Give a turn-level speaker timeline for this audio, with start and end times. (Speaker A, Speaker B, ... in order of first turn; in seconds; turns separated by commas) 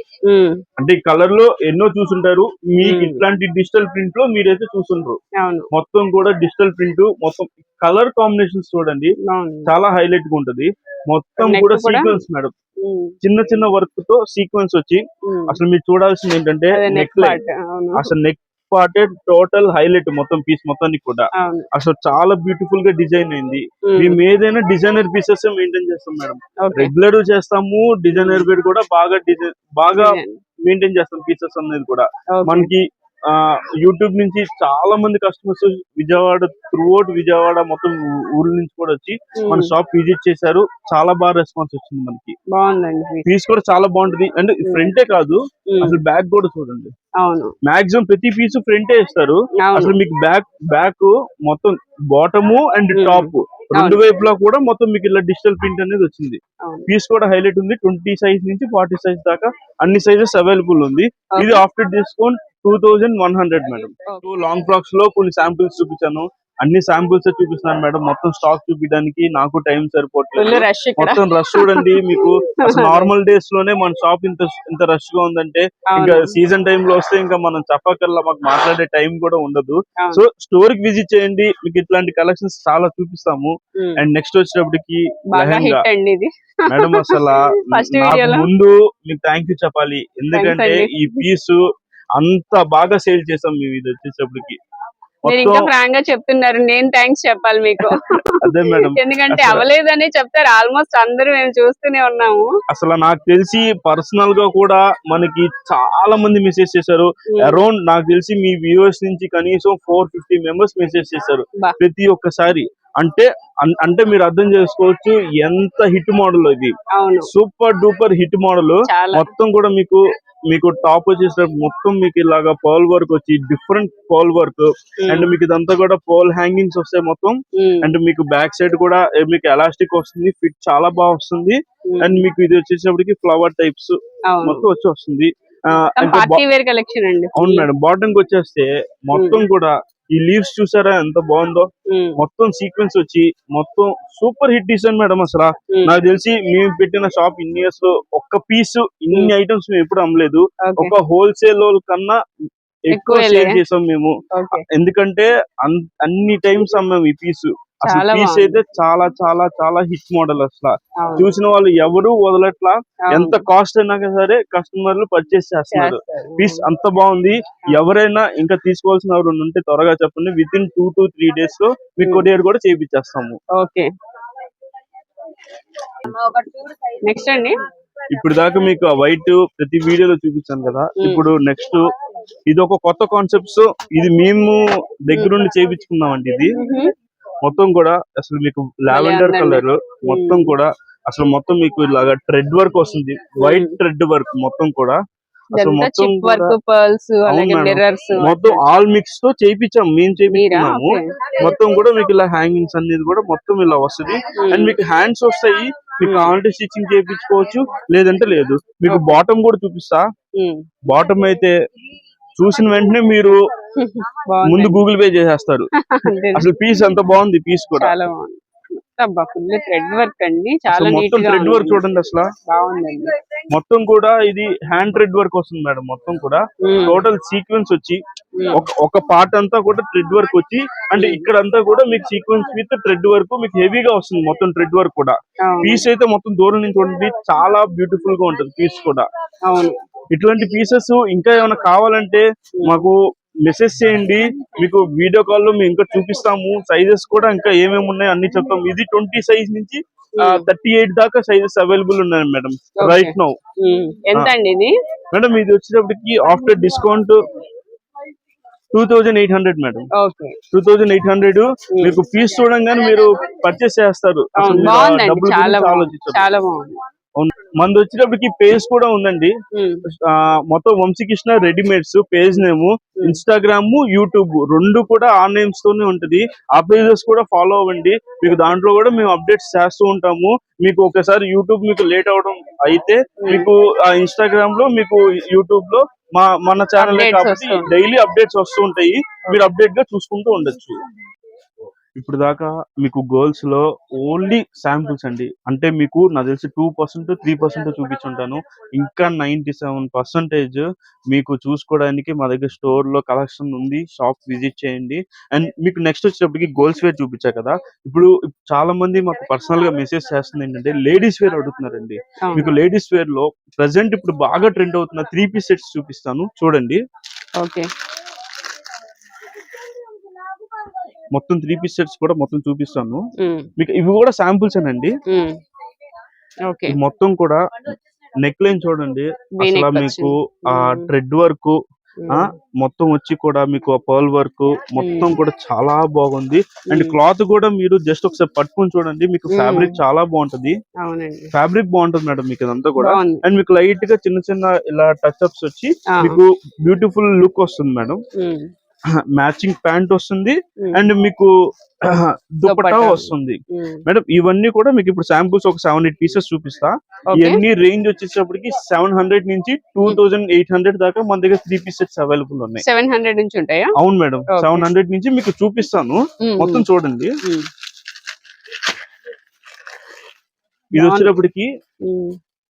Speaker A: 0.2-0.6, Speaker B: 0.8-5.2, Speaker A: 2.8-3.2, Speaker A: 5.3-5.7, Speaker B: 5.7-9.1, Speaker A: 9.2-9.7, Speaker B: 9.7-12.5, Speaker A: 11.4-12.2, Speaker A: 12.8-13.1, Speaker B: 13.2-17.4, Speaker A: 15.2-15.6, Speaker A: 16.7-18.1, Speaker B: 17.9-42.4, Speaker A: 21.4-21.7, Speaker A: 23.9-24.2, Speaker A: 26.6-26.9, Speaker A: 28.1-28.5, Speaker A: 29.9-30.4, Speaker A: 32.3-32.7, Speaker A: 39.4-39.7, Speaker A: 42.5-43.2, Speaker B: 43.2-46.9, Speaker A: 44.6-44.9, Speaker A: 45.7-46.0, Speaker A: 47.2-47.5, Speaker B: 47.6-85.8, Speaker A: 49.6-50.0, Speaker A: 52.9-54.0, Speaker A: 56.6-56.9, Speaker A: 61.3-61.6, Speaker A: 70.3-73.1, Speaker A: 75.9-76.3, Speaker A: 80.0-80.2, Speaker A: 85.3-88.5, Speaker B: 86.7-91.6, Speaker A: 90.3-91.2, Speaker B: 92.2-94.6, Speaker B: 95.2-95.7, Speaker A: 95.3-102.5, Speaker B: 97.9-99.6, Speaker B: 102.7-116.7, Speaker A: 107.3-107.6, Speaker A: 116.9-117.3, Speaker B: 117.2-136.4, Speaker A: 118.9-119.3, Speaker A: 125.0-125.3, Speaker A: 127.5-127.9, Speaker A: 131.9-132.3, Speaker A: 134.3-134.7, Speaker A: 135.7-137.7, Speaker B: 137.3-152.2, Speaker A: 139.1-139.4, Speaker A: 141.9-142.2, Speaker A: 145.7-146.0, Speaker A: 150.6-150.9, Speaker B: 152.9-173.4, Speaker A: 152.9-153.6, Speaker A: 154.3-154.6, Speaker A: 157.8-158.6, Speaker A: 161.0-161.3, Speaker A: 163.1-163.4, Speaker A: 165.7-166.7, Speaker A: 173.5-173.9, Speaker A: 177.0-177.6, Speaker B: 178.1-181.8, Speaker A: 181.0-181.3, Speaker B: 182.5-186.6, Speaker A: 186.5-186.9, Speaker B: 187.4-195.0, Speaker A: 188.9-190.6, Speaker A: 193.4-193.8, Speaker B: 195.5-196.6, Speaker A: 195.6-198.7, Speaker B: 197.3-210.1, Speaker A: 200.2-201.3, Speaker A: 204.3-204.8, Speaker A: 206.0-206.4, Speaker A: 208.8-209.2, Speaker A: 210.3-210.7, Speaker B: 210.8-211.5, Speaker B: 212.4-213.4, Speaker A: 213.7-214.8, Speaker B: 214.4-215.7, Speaker A: 215.8-216.5, Speaker B: 216.3-217.9, Speaker A: 217.8-221.8, Speaker B: 220.7-222.3, Speaker A: 222.5-223.1, Speaker B: 223.5-228.0, Speaker A: 226.6-227.0, Speaker A: 228.3-228.6, Speaker B: 228.5-239.1, Speaker A: 230.9-231.3, Speaker A: 235.4-235.9, Speaker A: 239.4-239.8, Speaker B: 240.1-253.4, Speaker A: 242.6-242.9, Speaker A: 250.2-250.5, Speaker A: 252.8-254.8, Speaker B: 255.1-257.2, Speaker B: 258.7-259.9, Speaker A: 259.9-260.4, Speaker B: 260.5-266.2, Speaker A: 261.7-262.0, Speaker A: 264.4-266.8, Speaker B: 267.2-269.3, Speaker A: 269.5-269.8, Speaker B: 269.9-290.8, Speaker A: 283.2-283.5, Speaker A: 286.8-287.7, Speaker B: 292.0-316.8, Speaker A: 312.2-312.5, Speaker A: 317.4-317.7, Speaker B: 321.1-323.0, Speaker A: 323.2-323.5, Speaker B: 323.6-325.0, Speaker A: 325.1-325.4, Speaker A: 326.4-326.8, Speaker B: 326.7-331.6, Speaker A: 329.4-330.9, Speaker A: 332.0-332.3, Speaker B: 332.1-340.6, Speaker A: 334.8-335.2, Speaker A: 336.7-337.0, Speaker A: 339.3-339.8, Speaker A: 340.8-341.3, Speaker B: 341.3-348.0, Speaker A: 342.8-343.2, Speaker A: 345.9-346.2, Speaker A: 348.2-348.5, Speaker B: 349.0-351.3, Speaker B: 351.8-362.6, Speaker A: 352.4-353.8, Speaker A: 357.1-357.4, Speaker A: 362.6-363.7, Speaker B: 363.8-367.1, Speaker A: 364.3-364.7, Speaker A: 366.2-366.6, Speaker A: 367.2-367.5, Speaker B: 370.7-371.5, Speaker A: 370.8-371.2, Speaker A: 371.8-372.2